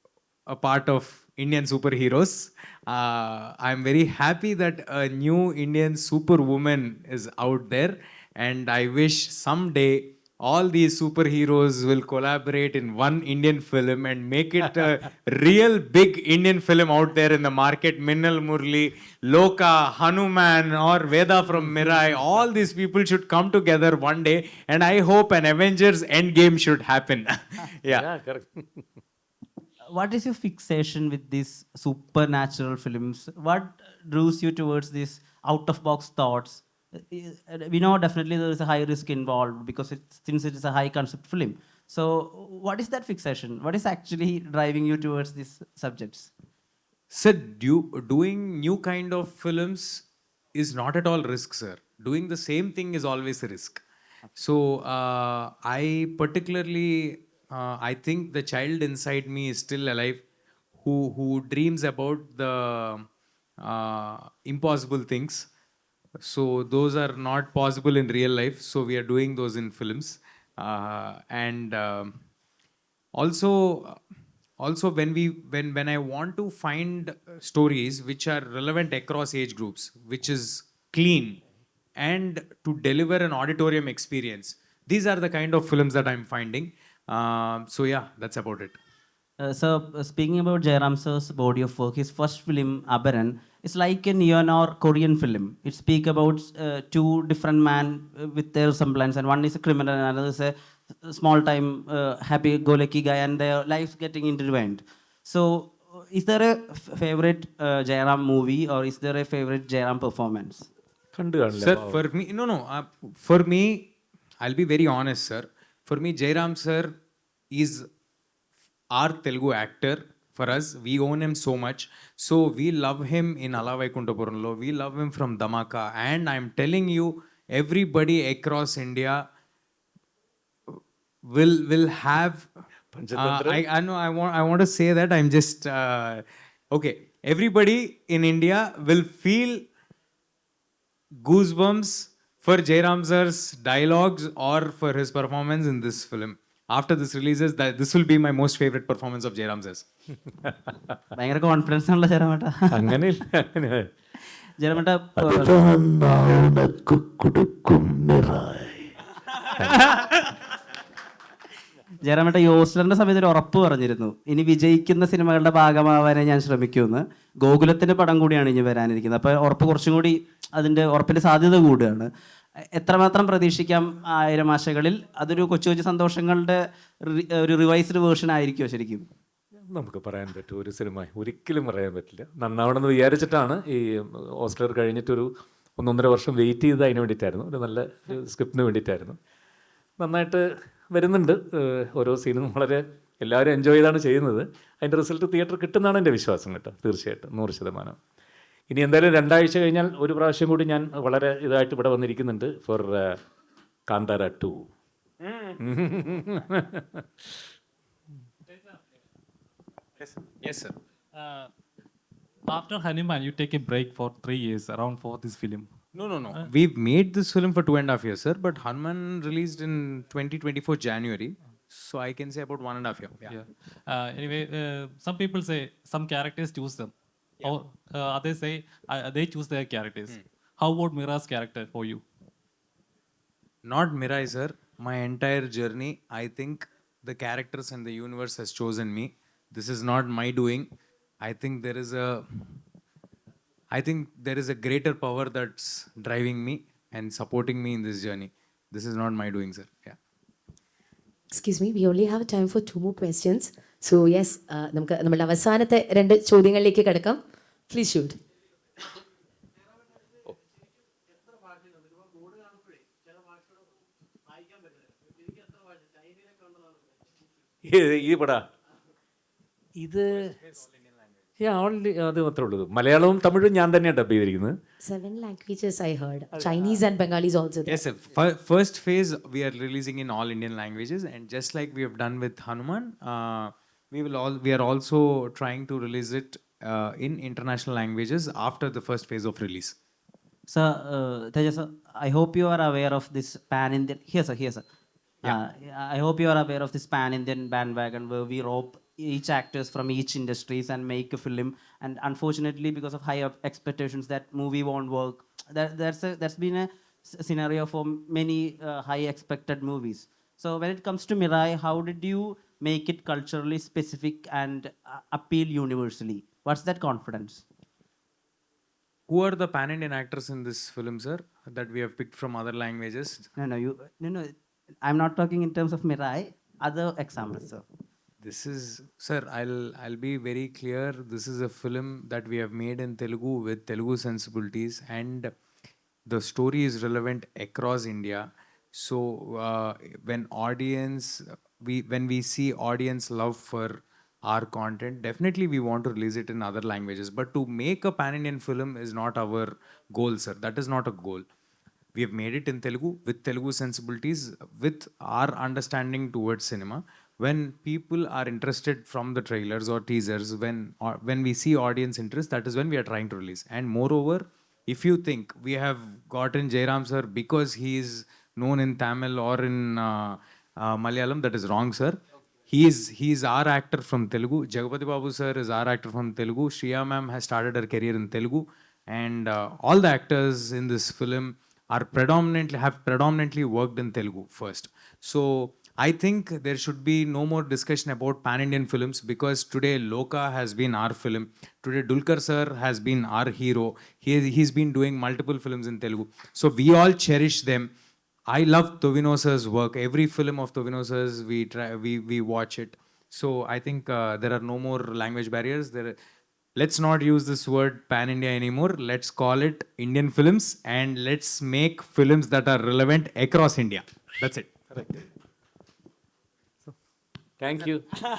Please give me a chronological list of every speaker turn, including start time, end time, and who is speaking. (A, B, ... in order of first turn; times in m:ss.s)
0:00.5-0:28.0 A
0:27.9-0:28.8 B
0:29.9-0:46.3 C
0:47.1-0:53.8 A
0:54.4-1:00.2 A
1:00.8-1:03.1 A
1:03.6-1:05.5 A
1:06.2-1:12.1 A
1:13.2-1:14.0 A
1:14.6-1:21.4 A
1:22.0-1:28.8 A
1:29.4-1:50.7 C
1:51.1-1:52.0 B
1:51.5-1:56.9 A
1:57.5-1:57.9 A
1:58.9-2:09.2 A
2:10.7-2:12.5 A
2:12.9-2:13.6 B
2:13.1-2:19.7 A
2:21.2-2:29.8 A
2:31.1-2:33.0 C
2:32.7-2:33.9 B
2:34.6-2:35.6 C
2:35.2-2:38.9 B
2:39.6-2:39.8 B
2:39.6-2:40.3 C
2:42.0-2:52.1 C
2:52.7-2:59.1 C
2:59.7-3:09.2 B
3:10.0-3:18.0 B
3:18.7-3:23.1 B
3:23.9-3:24.6 B
3:25.2-3:25.6 A
3:25.6-3:27.0 B
3:30.0-3:30.8 A
3:31.1-3:31.5 D
3:32.5-3:35.8 D
3:35.9-3:43.4 A
3:43.2-3:52.0 D
3:53.6-4:00.7 A
4:01.2-4:02.2 A
4:03.7-4:10.0 A
4:11.3-4:18.2 E
4:27.6-4:28.4 B
4:29.8-4:30.4 B
4:31.4-4:34.5 B
4:34.8-4:37.8 E
4:37.6-4:49.7 A
4:50.5-4:54.6 C
4:55.2-5:17.4 C
5:19.1-5:23.3 A
5:23.4-5:24.3 C
5:24.8-5:27.6 C
5:28.2-5:35.3 A
5:36.1-5:51.2 A
5:51.9-6:37.7 A
6:38.3-6:46.0 A
6:46.6-6:54.5 A
6:54.7-6:55.0 B
6:57.4-6:57.9 B